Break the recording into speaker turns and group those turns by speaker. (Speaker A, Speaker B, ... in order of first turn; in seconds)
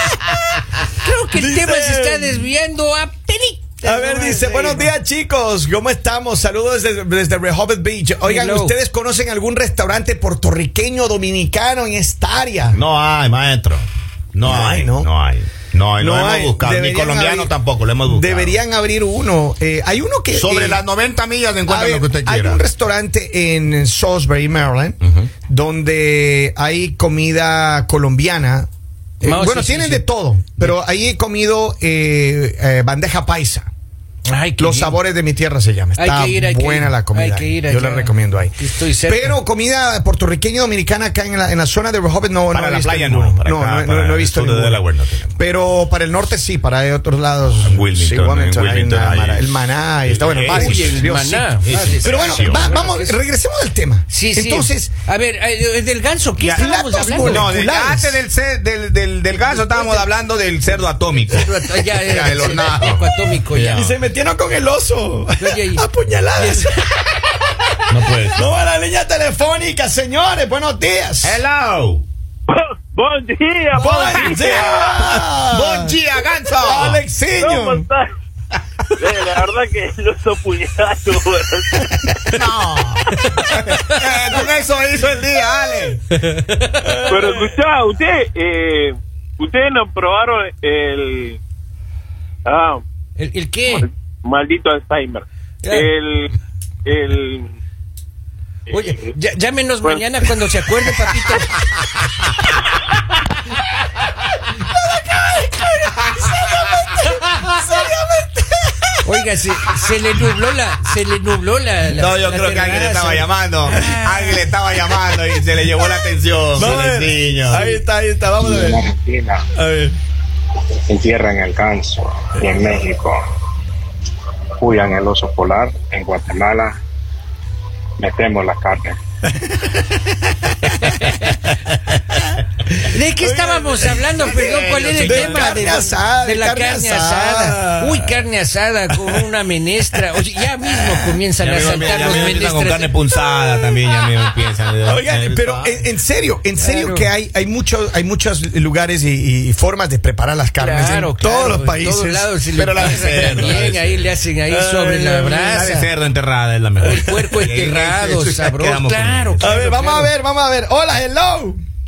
Speaker A: 1.0-4.9, 8.2-8.8, 29.2-30.1, 34.3-35.0, 36.0-39.4, 50.5-53.2, 54.1-57.5, 59.5-60.1, 61.3-64.0, 65.4-66.8, 93.2-93.9, 95.6-95.9, 98.7-101.5, 109.0-114.4, 130.8-131.3, 132.9-142.9, 146.6-147.1, 150.6-155.9, 156.8-160.1
Speaker B: 1.3-2.5, 3.8-12.8, 14.4-15.1, 16.0-17.5, 18.1-20.8, 21.7-28.7, 29.2-33.7, 34.6-44.8, 45.4-51.5, 52.0-54.9, 56.4-58.2, 63.7-71.4, 73.8-76.0, 76.6-77.9, 86.8-87.5, 104.7-109.2, 116.5-118.9, 119.5-120.0, 129.5-129.8, 130.7-131.3, 133.2-134.1, 135.0-138.2, 138.9-139.2, 140.7-142.0, 144.8-153.6, 154.5-155.5, 159.4-161.6
Speaker C: 12.7-18.6, 20.3-22.6, 25.0-25.3, 42.5-45.4, 47.6-49.5, 50.0-52.7, 57.2-63.9, 67.9-68.5, 71.2-72.0, 73.8-77.1, 82.3-86.0, 111.9-117.8, 134.0-135.7, 141.4-145.8, 152.5-154.1, 155.3-159.5
Speaker D: 72.5-74.8, 77.4-78.1, 79.0-81.9, 87.1-91.4, 92.5-92.8, 93.7-96.3, 96.8-97.5, 98.7-99.1, 99.8-100.3
Speaker E: 118.4-119.5, 120.9-123.2, 124.6-126.8, 128.0-129.0